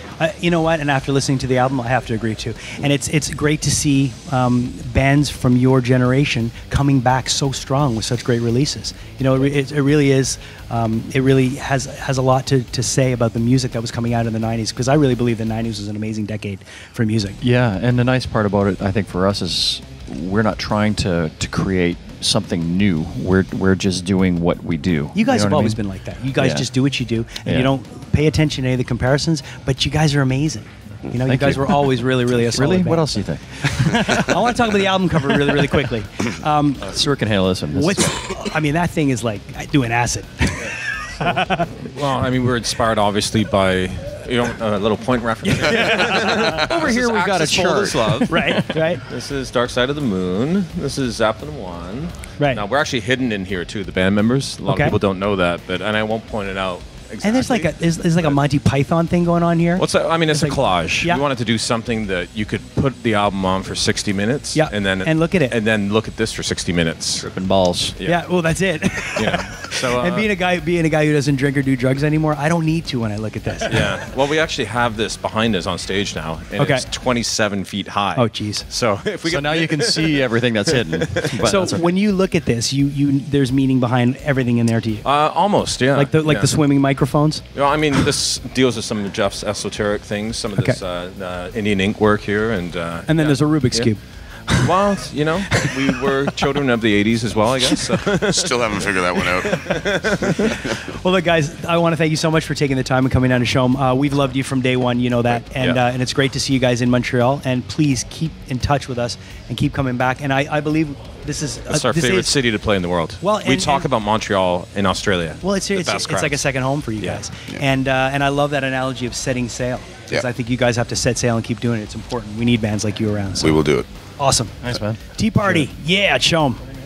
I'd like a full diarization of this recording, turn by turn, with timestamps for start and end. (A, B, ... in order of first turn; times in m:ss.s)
0:00.2-0:17.4 A
0:17.4-0:25.8 B
0:25.1-0:37.1 A
0:26.4-0:26.7 B
0:27.4-0:27.7 B
0:31.2-0:31.8 B
0:32.4-0:34.6 B
0:36.8-0:38.1 B
0:37.7-0:41.7 A
0:41.2-0:58.4 C
0:45.5-0:46.6 A
0:45.7-0:48.9 B
0:48.3-0:49.0 A
0:54.7-0:55.0 A
0:57.2-1:01.2 A
0:59.8-1:07.3 C
1:04.6-1:05.6 A
1:07.2-1:08.0 B
1:08.0-1:08.2 C
1:08.0-1:13.9 A
1:09.2-1:10.3 C
1:13.6-1:21.6 C
1:16.6-1:16.9 A
1:18.2-1:18.7 A
1:19.2-1:21.9 B
1:21.4-1:25.0 A
1:25.0-1:26.5 C
1:25.9-1:27.5 A
1:27.5-1:33.9 C
1:33.1-1:34.7 A
1:34.6-1:38.9 C
1:35.5-1:36.1 A
1:38.3-1:40.7 D
1:39.5-1:40.6 C
1:40.3-1:52.4 A
1:45.4-1:45.8 C
1:51.7-1:56.4 C
1:53.2-1:53.9 A
1:55.4-2:03.6 A
1:57.0-1:57.2 C
2:03.4-2:03.9 D
2:04.2-2:06.7 A
2:04.6-2:05.6 B